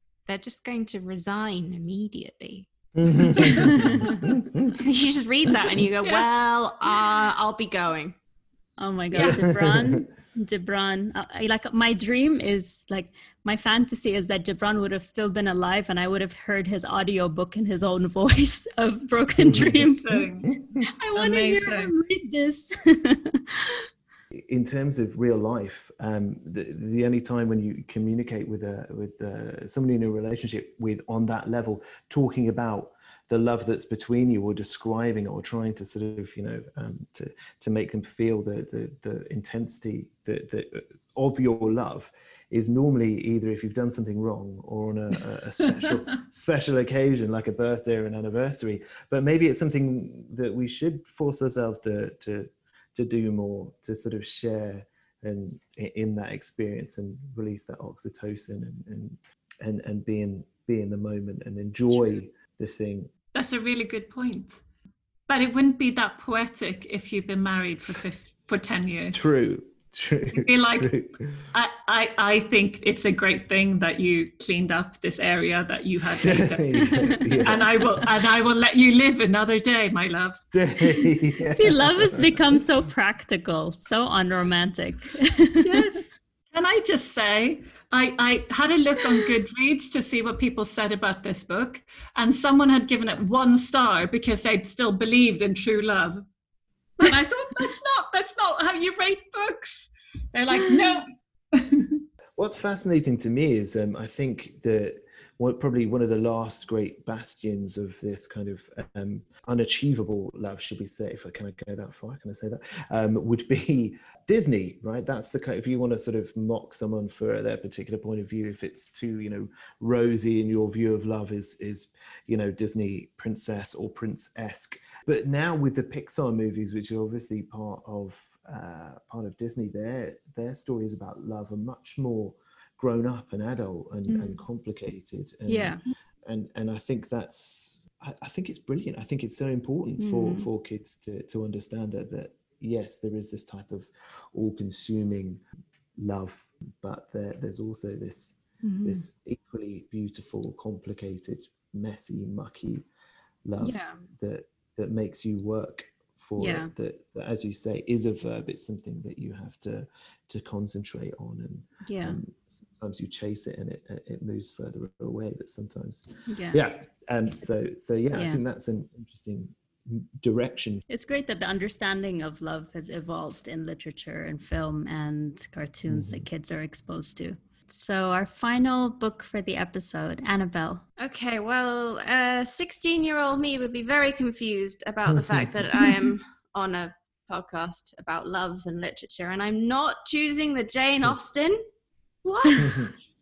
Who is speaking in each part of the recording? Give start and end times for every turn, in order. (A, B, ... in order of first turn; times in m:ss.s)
0:00.3-0:02.7 A
0:03.0-0:04.7 B
0:03.2-0:08.2 A
0:08.8-0:20.2 C
0:09.2-0:09.4 D
0:09.2-0:10.1 B
0:19.5-0:19.8 B
0:20.0-0:21.9 D
0:21.0-0:23.8 C
0:24.3-1:03.1 B
1:03.3-1:04.6 D
1:05.3-1:09.3 D
1:09.1-1:11.5 B
1:10.3-1:10.9 D
1:11.5-1:20.4 D
1:16.2-1:18.1 B
1:20.5-1:22.6 B
1:21.5-1:25.9 C
1:25.6-1:36.2 D
1:37.0-1:42.0 D
1:42.4-2:25.4 B
2:14.1-2:14.4 C
2:15.5-2:15.8 C
2:20.0-2:20.5 C
2:26.0-2:32.8 B
2:28.6-2:29.1 C
2:33.4-2:50.8 B
2:33.6-2:34.0 C
2:36.4-2:36.7 C
2:41.8-2:42.2 C
2:46.3-2:46.6 C
2:48.1-2:48.4 C
2:50.9-3:00.8 C
2:55.9-2:56.2 B
3:01.0-3:11.6 A
3:12.2-3:12.9 A